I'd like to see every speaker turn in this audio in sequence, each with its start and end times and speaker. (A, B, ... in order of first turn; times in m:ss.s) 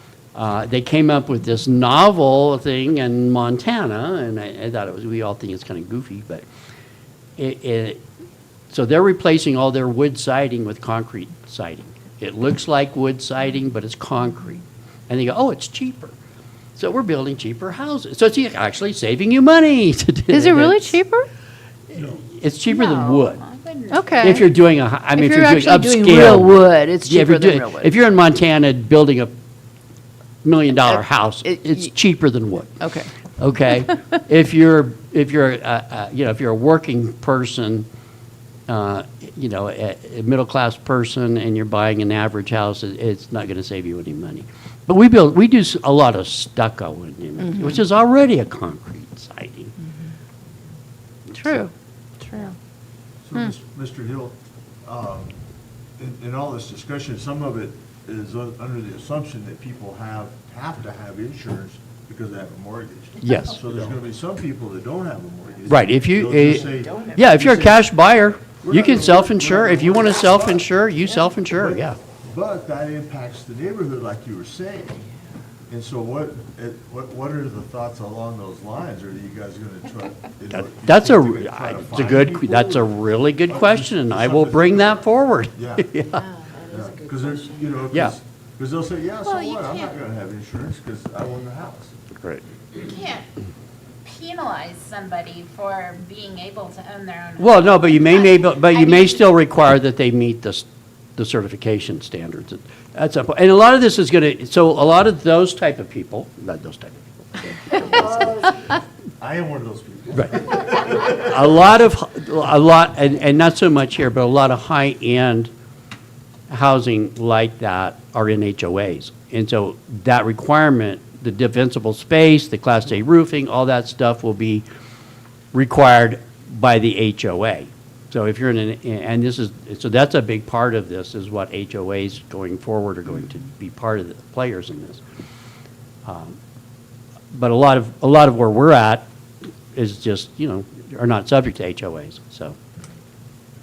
0:00.3-0:06.4 A
0:07.4-0:08.0 A
0:08.7-0:16.1 A
0:16.8-0:21.0 A
0:20.3-0:21.3 B
0:21.9-0:23.4 A
0:22.9-0:24.4 C
0:23.9-0:24.4 B
0:24.2-0:29.3 A
0:25.1-0:27.9 B
0:30.4-0:32.8 A
0:30.8-0:31.9 B
0:32.8-0:33.1 B
0:33.4-0:37.9 A
0:38.7-0:49.7 A
0:47.4-0:47.8 B
0:51.3-0:51.7 A
0:51.4-0:51.7 B
0:52.2-0:52.5 B
0:53.2-0:55.4 D
0:56.0-1:07.9 D
1:03.2-1:03.6 A
1:05.7-1:12.0 A
1:08.6-1:10.7 D
1:11.4-1:15.1 D
1:15.7-1:25.9 D
1:20.5-1:26.3 A
1:26.6-1:31.9 D
1:27.9-1:28.2 A
1:29.2-1:29.9 C
1:32.8-1:33.2 C
1:34.0-1:39.2 C
1:37.4-1:48.2 A
1:47.7-1:51.7 D
1:50.1-1:55.5 A
1:56.5-2:04.6 A
2:05.5-2:15.0 A
2:16.0-2:16.4 A
2:17.3-2:19.1 A
2:19.7-2:22.6 A